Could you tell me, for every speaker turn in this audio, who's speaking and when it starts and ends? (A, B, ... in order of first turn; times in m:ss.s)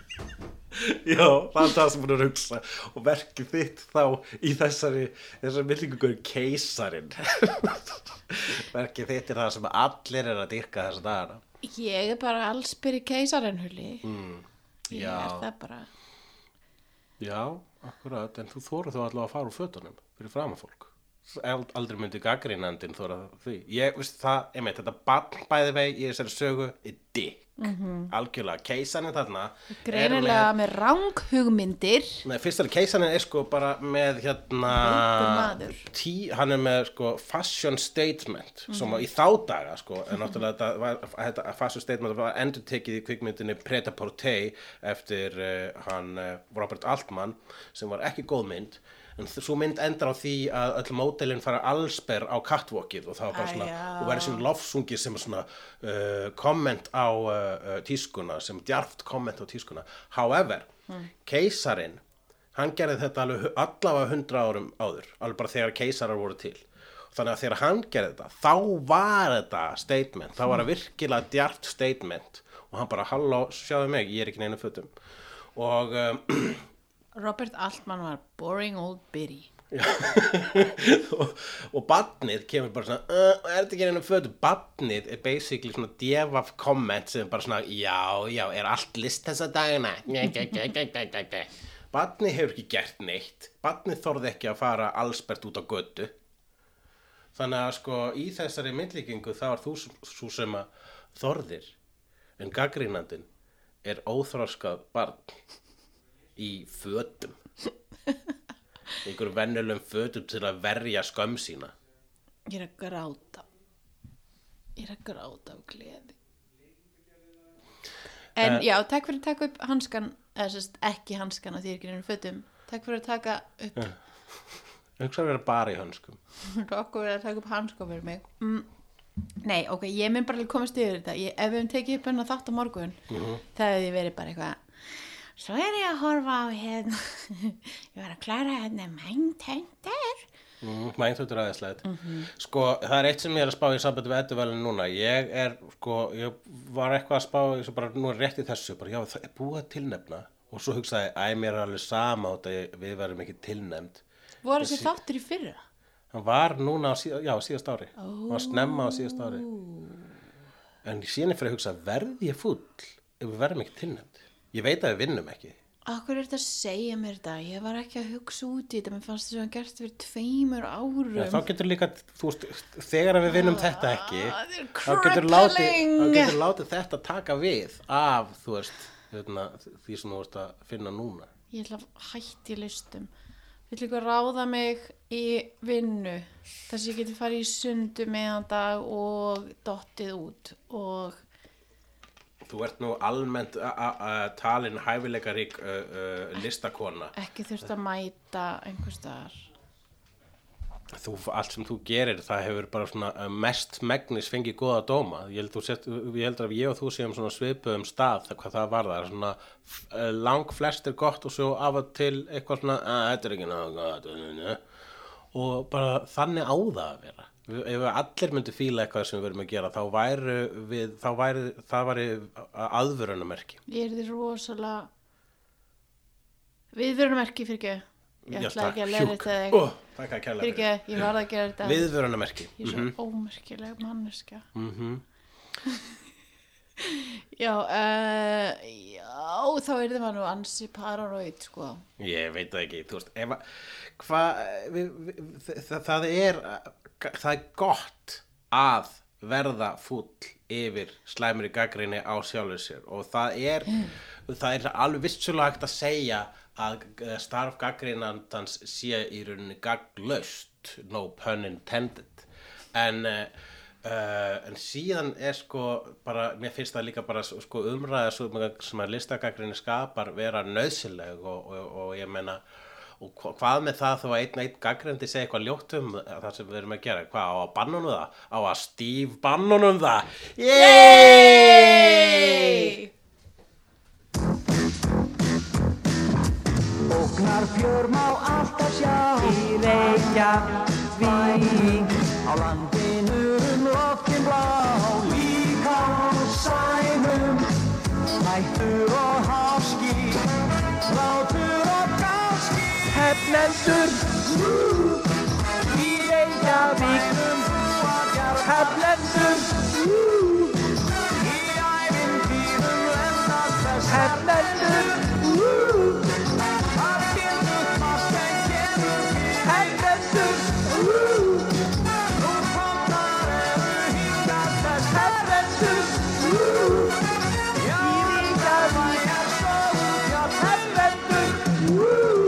0:00.7-0:11.4 A
0:11.6-0:14.0 B
0:14.0-0:15.5 A
0:14.9-0:15.9 B
0:17.2-0:30.5 A
0:27.6-0:28.1 B
0:29.8-0:32.2 B
0:32.2-1:00.7 A
0:34.7-0:35.9 B
0:38.7-0:39.0 B
0:53.3-0:54.4 B
1:01.2-1:02.0 A
1:02.5-1:14.9 A
1:15.5-1:16.7 A
1:17.1-1:19.5 B
1:19.7-1:36.1 A
1:37.3-1:41.7 A
1:42.4-1:43.3 A
1:43.8-1:45.4 A
1:46.4-1:47.4 A
1:49.0-1:51.7 A
1:52.5-1:53.4 B
1:54.8-1:56.1 B
1:58.4-2:03.9 B
1:58.4-1:58.6 A
2:03.8-2:06.2 A
2:06.4-2:08.7 B
2:09.4-2:20.3 B
2:13.1-2:13.4 A
2:20.6-2:34.0 A
2:21.8-2:22.3 B
2:34.4-2:35.6 B
2:34.6-2:35.0 A
2:36.1-2:39.4 A
2:38.0-2:40.1 B
2:40.8-2:45.6 A
2:45.8-2:51.4 B
2:51.1-3:01.3 A
2:53.3-2:56.4 B
3:01.5-3:03.1 B
3:03.7-3:11.2 B
3:12.4-3:17.1 A
3:17.1-3:19.5 B
3:20.9-3:34.6 A
3:35.3-3:43.6 A
3:43.7-3:44.9 B
3:46.7-3:49.7 B
3:48.3-3:51.1 A
3:50.4-3:51.9 B
3:51.6-3:52.9 A
3:52.6-3:54.5 B
3:54.5-3:55.0 A
3:55.6-3:56.0 B
3:56.8-4:01.8 B
4:02.0-4:32.4 A
4:33.0-4:42.8 A
4:40.5-4:42.9 B
4:46.9-4:57.5 C
4:58.2-5:00.3 C
5:00.9-5:04.6 C
5:05.7-5:09.7 C
5:11.2-5:15.2 C
5:16.8-5:20.8 C
5:22.2-5:26.2 C
5:27.6-5:31.5 C